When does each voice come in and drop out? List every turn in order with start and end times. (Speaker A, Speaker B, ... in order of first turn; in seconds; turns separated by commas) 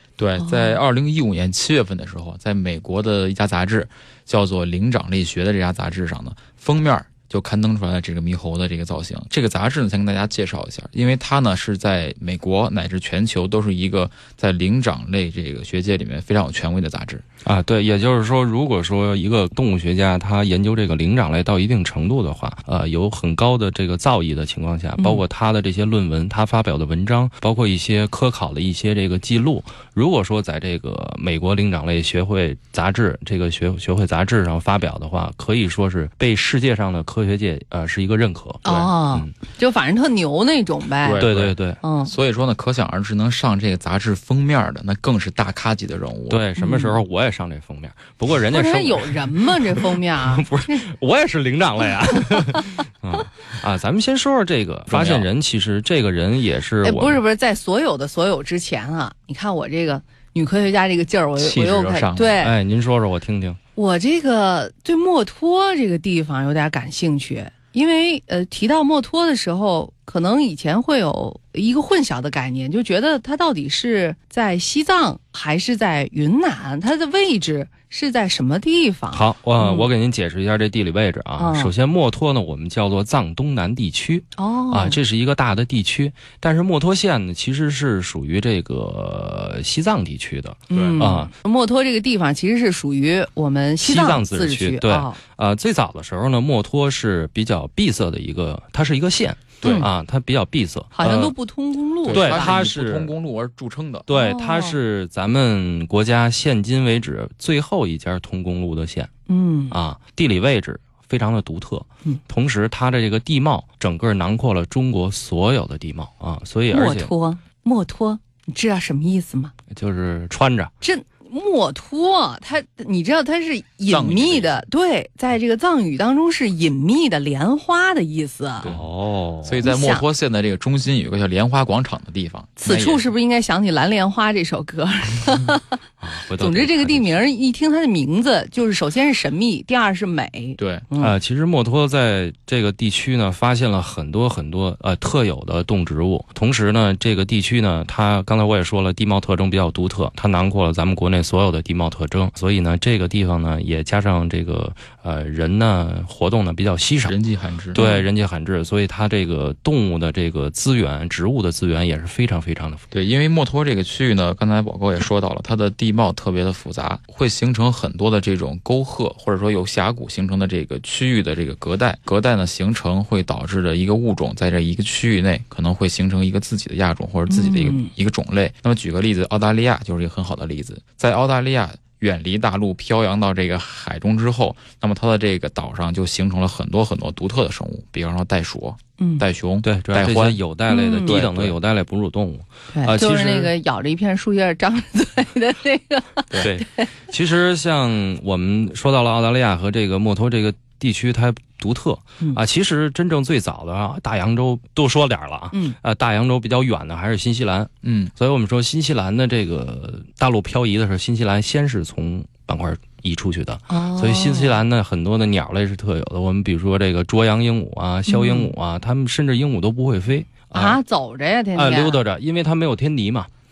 Speaker A: 0.2-17.2, Speaker B: 0.4-0.8, Speaker C: 17.4-39.3, Speaker B: 25.0-25.2, Speaker A: 38.6-38.9, Speaker B: 38.6-41.2, Speaker A: 41.0-46.4, Speaker C: 41.2-41.8, Speaker B: 41.8-42.1, Speaker C: 46.3-57.2, Speaker B: 46.6-46.9, Speaker B: 48.5-50.9, Speaker B: 52.3-52.6, Speaker A: 54.9-55.3, Speaker B: 56.8-62.5, Speaker A: 61.4-62.4, Speaker C: 62.4-63.6, Speaker B: 63.8-79.9, Speaker C: 79.1-91.3, Speaker B: 81.4-81.7, Speaker B: 84.4-85.0, Speaker B: 90.7-95.2, Speaker A: 90.7-91.1, Speaker C: 93.8-101.3, Speaker A: 99.6-99.9, Speaker B: 99.6-99.9, Speaker B: 101.0-102.5, Speaker A: 102.0-104.1, Speaker C: 102.1-103.1, Speaker C: 104.1-109.1, Speaker B: 104.1-104.8, Speaker B: 109.3-109.7, Speaker C: 109.7-117.1, Speaker B: 116.7-119.5, Speaker C: 119.7-120.7, Speaker B: 120.8-128.7, Speaker A: 123.9-124.6, Speaker A: 128.6-128.9, Speaker C: 128.6-129.6, Speaker A: 129.4-133.0, Speaker B: 129.6-130.0, Speaker B: 132.6-135.8, Speaker C: 136.0-137.2, Speaker B: 136.4-141.1, Speaker A: 140.6-140.8, Speaker C: 141.0-157.2, Speaker A: 157.1-157.8, Speaker C: 157.7-162.8, Speaker B: 157.8-158.1, Speaker A: 162.9-190.4, Speaker B: 177.3-177.9, Speaker B: 189.0-189.2, Speaker C: 189.6-193.5, Speaker B: 190.7-191.1, Speaker A: 191.1-191.6, Speaker B: 192.7-196.9, Speaker C: 196.4-220.8, Speaker A: 207.8-208.1, Speaker B: 213.7-214.6, Speaker B: 218.1-218.5, Speaker B: 220.5-222.0, Speaker C: 221.6-223.3